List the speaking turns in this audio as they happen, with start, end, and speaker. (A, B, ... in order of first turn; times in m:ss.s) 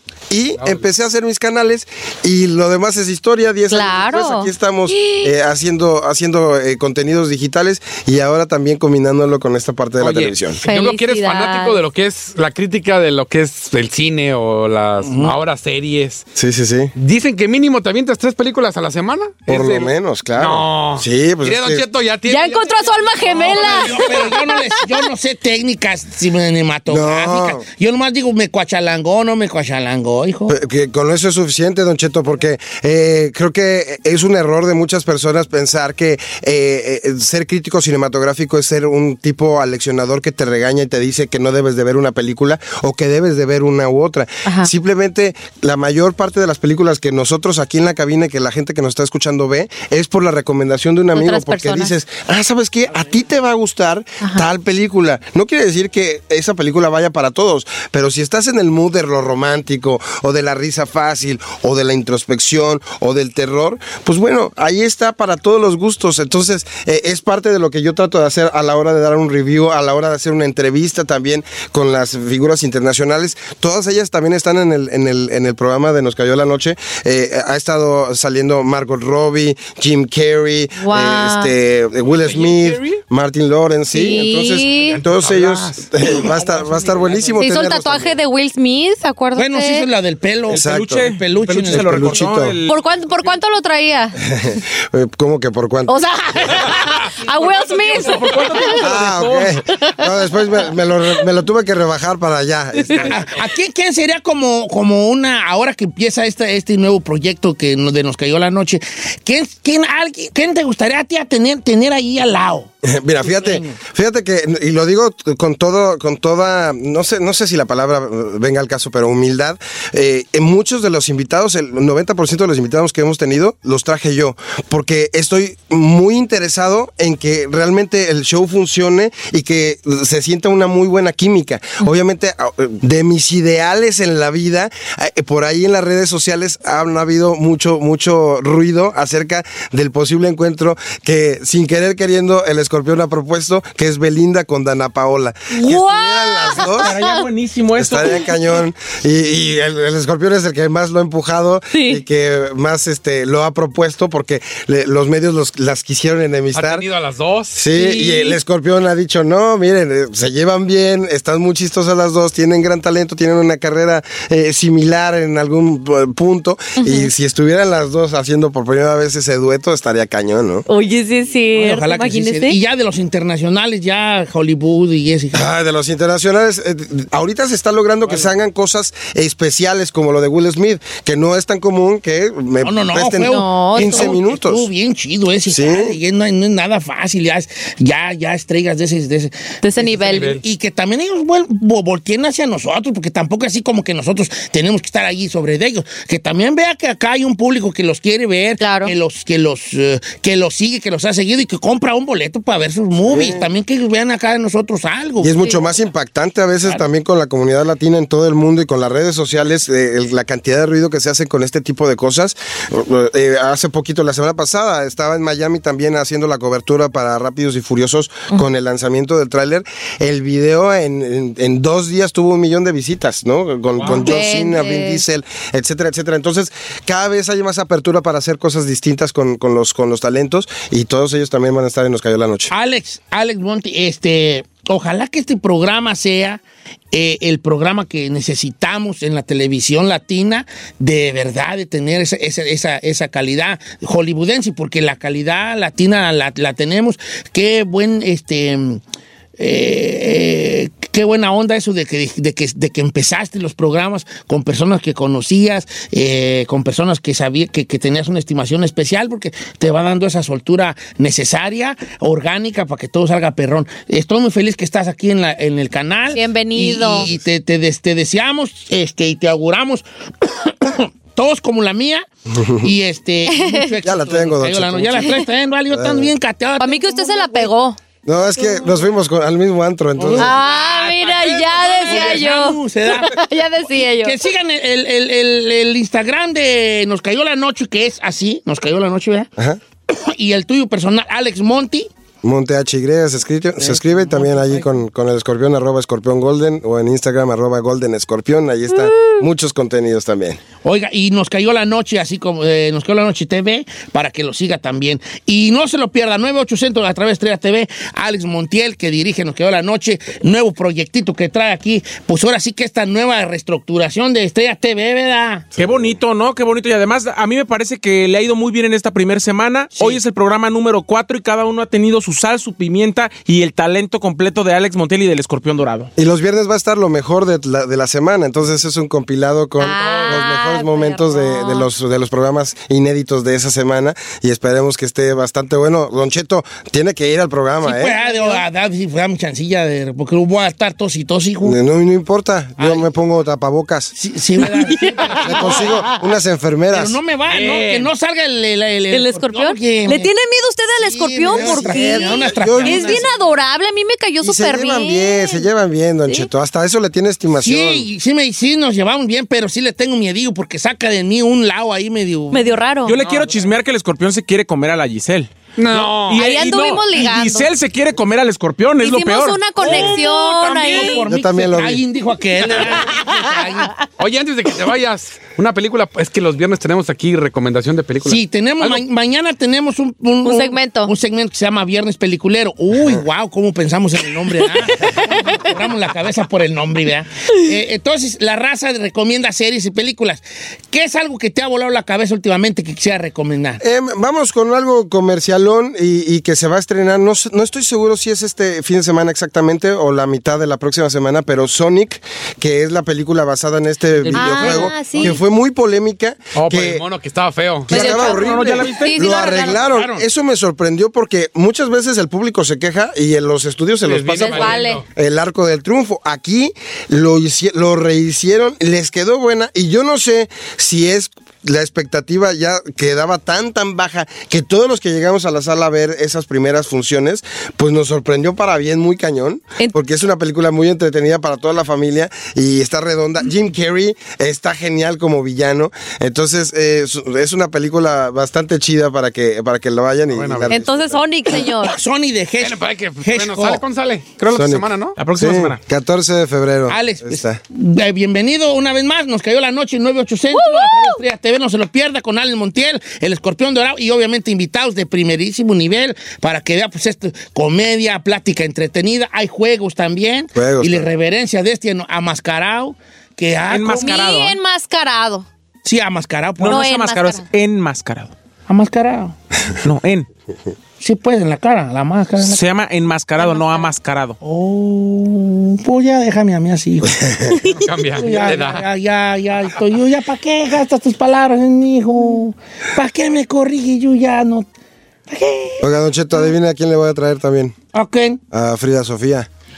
0:00.3-0:10.6 A
0:00.6-0:00.8 B
0:03.7-0:05.3 C
0:10.0-0:16.2 B
0:10.6-0:11.8 C
0:15.0-0:15.3 D
0:16.4-0:16.9 A
0:17.0-0:24.2 B
0:19.5-0:21.8 A
0:22.2-0:24.9 C
0:23.2-0:30.5 D
0:26.9-0:27.6 A
0:30.5-1:28.2 A
0:44.4-0:44.7 C
0:51.1-0:51.9 C
1:20.8-1:21.5 C
1:22.2-1:22.8 B
1:23.9-1:25.0 C
1:24.8-1:25.8 B
1:26.4-1:27.3 D
1:27.4-1:29.9 C
1:29.4-1:32.2 D
1:30.5-1:31.0 A
1:30.5-1:32.8 E
1:31.7-1:32.6 A
1:32.6-1:34.2 C
1:34.2-1:36.0 A
1:35.9-1:38.8 C
1:36.6-1:37.1 B
1:37.4-1:39.6 E
1:38.8-1:43.2 A
1:39.7-1:40.1 C
1:43.0-1:52.7 D
1:52.8-2:26.9 A
1:53.2-1:53.8 D
2:25.5-2:27.2 C
2:26.8-2:28.2 E
2:27.7-2:36.8 A
2:31.7-2:32.0 C
2:36.5-2:37.6 B
2:37.5-2:50.6 A
2:37.8-2:38.4 C
2:46.8-2:47.1 C
2:50.7-2:52.6 C
2:51.5-2:55.4 D
2:55.3-3:04.7 A
3:02.6-3:25.6 D
3:03.2-3:04.2 C
3:05.5-3:06.0 A
3:09.6-3:10.4 C
3:10.1-3:10.4 B
3:18.6-3:18.9 C
3:23.0-3:23.5 A
3:25.2-3:52.5 A
3:43.9-3:45.0 C
3:52.5-4:08.8 D
4:09.4-4:32.0 D
4:26.1-4:27.1 C
4:32.3-4:32.7 A
4:32.6-4:37.5 D
4:33.3-4:33.7 C
4:33.8-4:36.1 A
4:36.6-4:37.8 C
4:38.0-4:40.4 A
4:40.0-4:40.3 D
4:40.2-4:44.2 C
4:40.2-4:42.2 B
4:41.8-4:43.2 D
4:44.0-4:49.3 D
4:49.9-4:51.9 D
4:52.2-5:00.4 A
4:53.6-4:54.8 D
4:58.8-4:59.2 C
5:00.6-5:15.5 D
5:15.6-5:25.9 E
5:15.6-5:16.0 A
5:19.7-5:20.0 D
5:26.0-5:38.0 A
5:29.6-5:31.7 C
5:29.8-5:30.2 B
5:37.6-5:41.6 D
5:38.0-5:38.4 C
5:41.4-5:43.9 A
5:42.6-5:42.9 D
5:43.9-5:45.8 D
5:44.4-5:45.9 C
5:45.2-5:47.0 A
5:46.7-5:50.1 D
5:48.9-5:55.4 C
5:50.7-5:53.1 D
5:51.3-5:53.1 A
5:54.2-5:57.9 A
5:57.4-6:02.5 D
6:02.3-6:03.0 C
6:02.8-6:09.4 E
6:03.0-6:03.4 B
6:05.6-6:06.3 B
6:06.1-6:07.5 C
6:08.8-6:11.1 C
6:09.6-6:13.7 D
6:09.6-6:11.0 B
6:11.1-6:11.8 A
6:14.0-6:18.8 B
6:18.0-6:33.6 D
6:20.2-6:20.9 C
6:24.7-6:25.4 C
6:33.6-6:46.8 A
6:44.1-6:45.1 D
6:44.2-6:45.2 C
6:46.3-6:47.9 B
6:47.7-7:21.0 A
6:47.7-6:49.6 C
6:47.7-6:49.0 E
6:49.5-6:50.0 D
6:53.8-6:54.8 B
6:54.2-6:54.8 C
7:20.1-7:20.5 B
7:20.5-7:21.8 C
7:21.3-7:23.6 D
7:22.4-7:25.0 B
7:24.3-7:27.4 A
7:25.0-7:25.6 E
7:26.7-7:44.0 D
7:30.3-7:31.0 C
7:40.3-7:40.9 A
7:43.5-7:44.4 E
7:43.7-7:45.2 C
7:45.6-7:46.7 D
7:46.4-7:48.1 E
7:46.4-7:47.2 C
7:48.5-7:49.2 D
7:49.6-7:50.1 E
7:50.8-7:52.4 D
7:52.2-7:54.2 E
7:53.2-7:53.6 C
7:54.2-8:04.5 D
7:56.8-7:57.4 A
7:57.5-7:58.6 B
8:05.1-8:05.7 D
8:05.6-8:07.6 A
8:07.7-8:08.2 D
8:08.3-8:09.3 A